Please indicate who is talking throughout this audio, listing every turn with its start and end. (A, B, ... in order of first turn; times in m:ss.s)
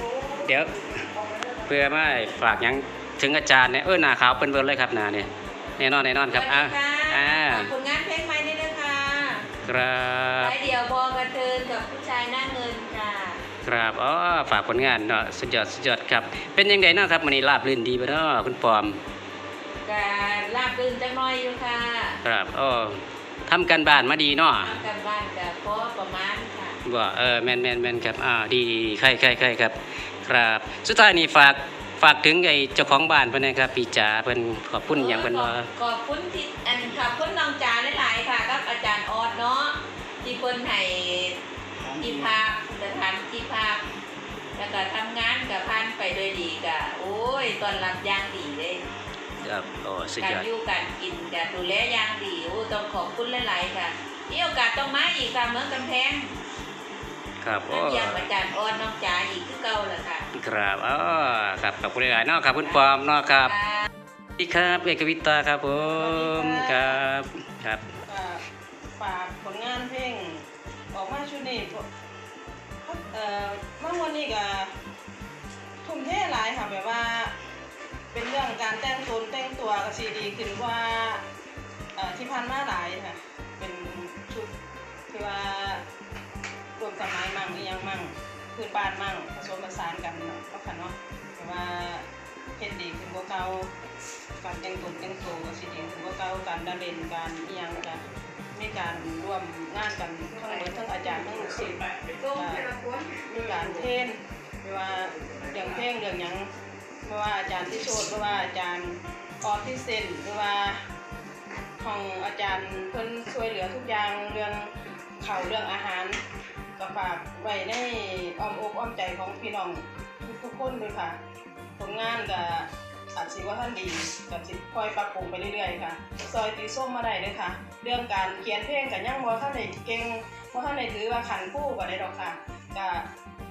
0:00.3-0:00.8 A
0:01.6-0:07.7 A
0:06.3-0:09.5 B
0:09.6-0:10.5 A
0:10.4-0:13.4 B
0:13.6-0:19.0 A
0:19.8-0:22.2 B
0:22.2-0:24.8 A
0:24.6-0:26.8 B
0:26.8-0:35.7 A
0:34.9-0:41.4 B
0:42.0-0:43.8 B
0:44.6-0:48.8 B
0:49.4-0:50.5 A
0:50.2-0:56.3 B
0:57.4-0:58.3 A
0:57.7-1:00.2 B
1:00.4-1:03.6 A
1:03.4-1:03.8 B
1:04.4-1:07.8 A
1:06.0-1:07.0 C
1:08.1-1:08.4 C
1:08.9-1:11.8 C
1:12.8-1:14.7 C
1:15.8-1:17.3 C
1:18.1-1:21.2 C
1:22.0-1:24.5 C
1:25.1-1:25.8 C
1:26.8-1:32.0 C
1:32.6-1:33.7 C
1:34.4-1:38.0 C
1:38.5-1:46.5 C
1:42.2-1:43.1 B
1:47.0-1:50.8 C
1:51.8-1:56.2 C
1:56.8-2:01.2 C
2:01.8-2:13.1 C